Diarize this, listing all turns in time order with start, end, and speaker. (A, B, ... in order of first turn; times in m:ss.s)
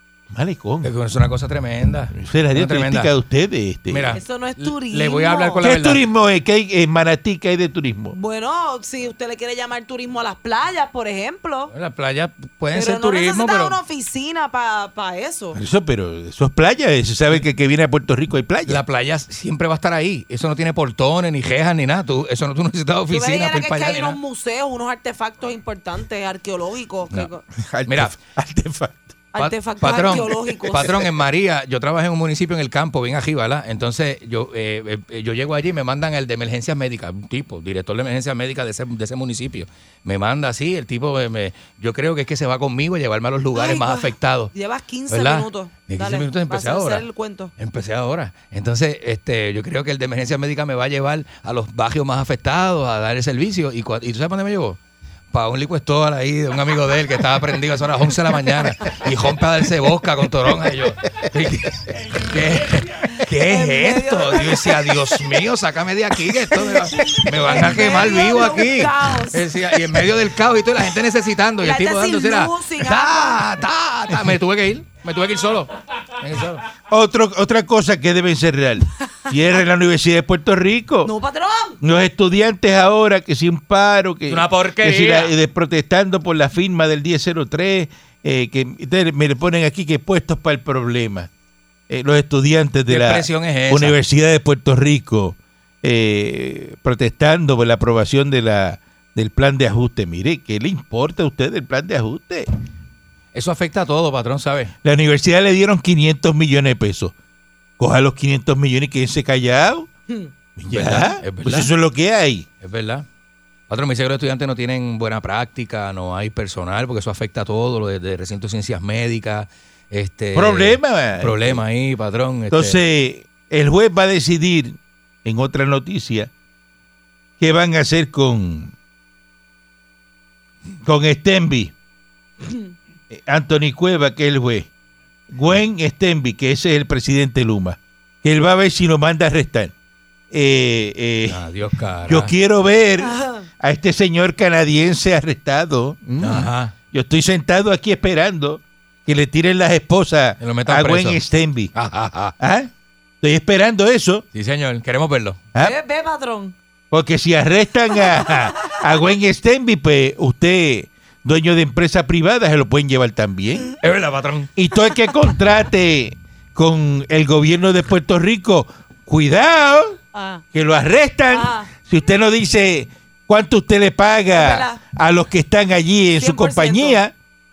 0:00.3-0:00.9 A
0:00.8-0:03.1 B
0:02.1-0:04.2 A
0:03.9-0:06.0 B
0:04.1-0:05.6 C
0:05.6-0:08.1 A
0:08.1-0:11.7 C
0:11.7-0:13.8 B
0:12.7-0:15.6 C
0:15.5-0:18.8 A
0:18.7-0:24.2 B
0:23.1-0:27.4 C
0:27.6-0:29.1 A
0:27.9-0:28.1 B
0:29.3-0:30.9 C
0:29.4-0:44.5 B
0:43.5-0:47.5 C
0:45.1-0:47.0 B
0:47.6-0:54.8 B
0:55.3-1:16.6 B
1:03.4-1:04.6 C
1:07.1-1:09.4 C
1:11.6-1:13.5 C
1:16.9-1:21.1 A
1:21.0-1:21.8 C
1:21.8-1:31.3 A
1:24.3-1:25.3 B
1:31.9-1:42.5 A
1:32.9-1:34.0 B
1:43.3-1:44.7 B
1:44.8-1:47.1 A
1:47.8-1:49.9 A
1:50.6-1:52.5 A
1:50.7-1:51.7 B
1:52.6-1:53.0 B
1:53.7-2:02.8 B
2:00.3-2:01.6 A
2:02.5-2:06.3 A
2:07.4-2:08.7 A
2:10.8-2:11.7 A
2:13.1-2:14.7 A
2:15.3-2:19.7 A
2:20.3-2:21.4 A
2:21.2-2:22.3 B
2:22.0-2:31.7 A
2:23.0-2:23.4 C
2:26.2-2:26.7 B
2:30.4-2:31.2 B
2:31.7-2:32.3 B
2:32.4-2:32.7 A
2:33.2-2:34.2 A
2:34.3-2:35.4 B
2:35.6-2:36.5 C
2:36.9-2:43.7 A
2:43.8-2:44.5 B
2:44.6-2:50.0 A
2:50.1-2:50.4 C
2:50.5-2:57.1 A
2:51.3-2:51.7 C
2:54.3-2:54.8 C
2:56.2-2:57.0 C